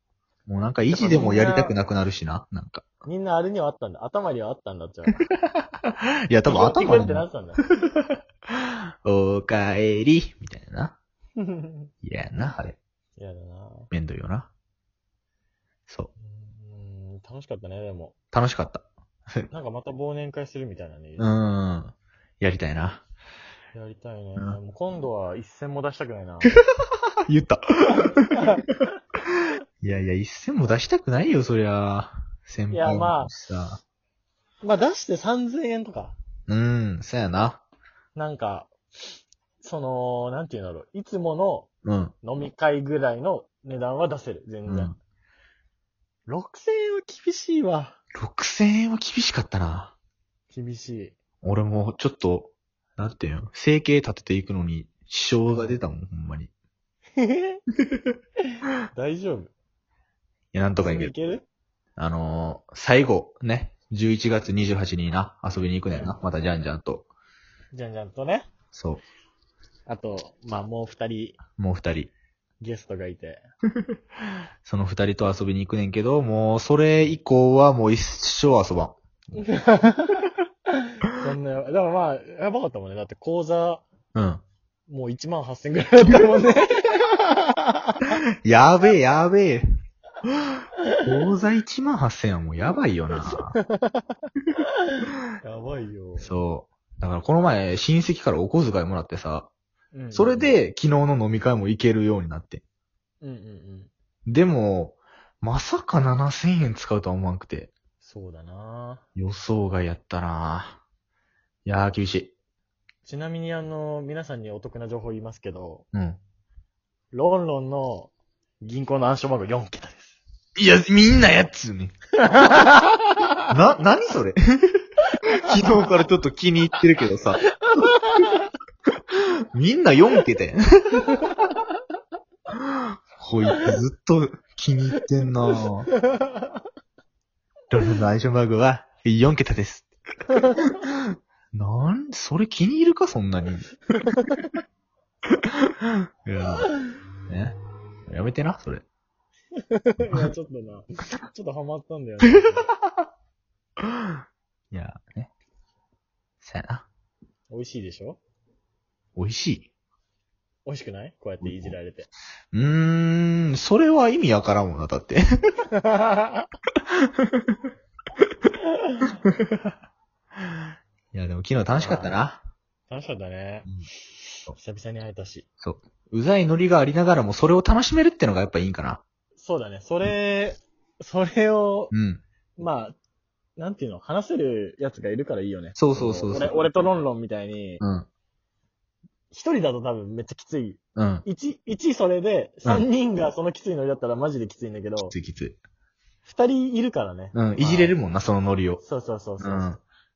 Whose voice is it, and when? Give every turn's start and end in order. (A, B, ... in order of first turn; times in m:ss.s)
0:00.5-0:02.8 A
0:00.9-0:01.7 B
0:03.0-0:05.3 B
0:05.6-0:07.2 A
0:06.5-0:07.6 B
0:07.8-0:11.0 A
0:11.4-0:11.9 B
0:12.0-0:12.8 A
0:13.2-0:13.9 B
0:13.9-0:14.5 A
0:16.2-0:18.1 B
0:18.3-0:19.5 A
0:19.5-0:21.3 B
0:21.2-0:23.0 A
0:23.7-0:26.5 B
0:27.3-0:28.5 A
0:28.0-0:28.6 B
0:29.8-0:33.8 A
0:32.7-0:33.3 B
0:34.6-0:36.2 B
0:36.5-0:37.6 A
0:38.1-0:38.7 B
0:39.6-0:41.7 B
0:41.8-0:42.1 A
0:42.2-0:44.9 B
0:44.7-0:44.9 A
0:46.3-0:48.0 B
0:48.1-0:49.9 A
0:50.5-0:51.1 B
0:51.4-0:56.5 A
0:55.5-0:55.8 B
0:57.2-0:57.6 B
0:58.9-0:59.5 B
1:00.5-1:01.1 A
1:00.8-1:01.4 B
1:02.0-1:07.1 A
1:07.7-1:08.5 B
1:08.7-1:09.0 A
1:09.9-1:11.4 B
1:11.6-1:12.1 A
1:12.6-1:13.4 B
1:14.6-1:19.0 A
1:19.4-1:20.3 B
1:21.2-1:23.8 B
1:24.1-1:24.4 A
1:24.9-1:28.1 B
1:28.4-1:29.6 A
1:31.0-1:33.5 A
1:33.3-1:34.0 B
1:35.4-1:36.3 B
1:36.2-1:39.5 A
1:39.9-1:40.5 B
1:40.1-1:42.6 A
1:43.2-1:43.9 B
1:44.3-1:47.7 A
1:48.0-1:49.0 B
1:49.2-1:50.8 A
1:51.6-1:52.3 A
1:53.0-1:55.8 B
1:55.9-1:56.2 A
1:57.1-2:00.2 B
2:00.6-2:01.9 A
2:02.2-2:03.1 B
2:03.5-2:04.8 A
2:05.4-2:07.4 A
2:07.7-2:08.4 B
2:09.5-2:11.3 A
2:11.1-2:11.4 B
2:12.5-2:15.9 A
2:16.1-2:16.4 B
2:17.7-2:19.9 A
2:20.3-2:20.6 B
2:20.7-2:23.7 A
2:23.9-2:24.4 B
2:25.9-2:26.7 A
2:27.3-2:28.8 A
2:29.6-2:32.7 B
2:34.7-2:35.3 A
2:36.4-2:36.9 A
2:37.5-2:38.2 B
2:39.2-2:39.7 A
2:40.6-2:42.1 B
2:41.4-2:41.7 A
2:42.5-2:45.2 A
2:45.7-2:46.4 B
2:46.9-2:47.6 A
2:49.2-2:49.6 A
2:51.1-2:52.4 A
2:51.8-2:52.2 B
2:52.9-2:53.7 B
2:54.5-2:55.4 B
2:55.6-2:59.0 A
2:59.4-3:01.9 B
3:01.9-3:02.2 A
3:02.6-3:03.0 B
3:03.6-3:07.8 B
3:05.8-3:06.5 A
3:07.8-3:08.1 A
3:09.3-3:15.1 B
3:11.0-3:11.2 A
3:15.1-3:15.6 A
3:16.2-3:18.0 B
3:17.3-3:18.8 A
3:18.8-3:19.8 B
3:19.4-3:19.8 A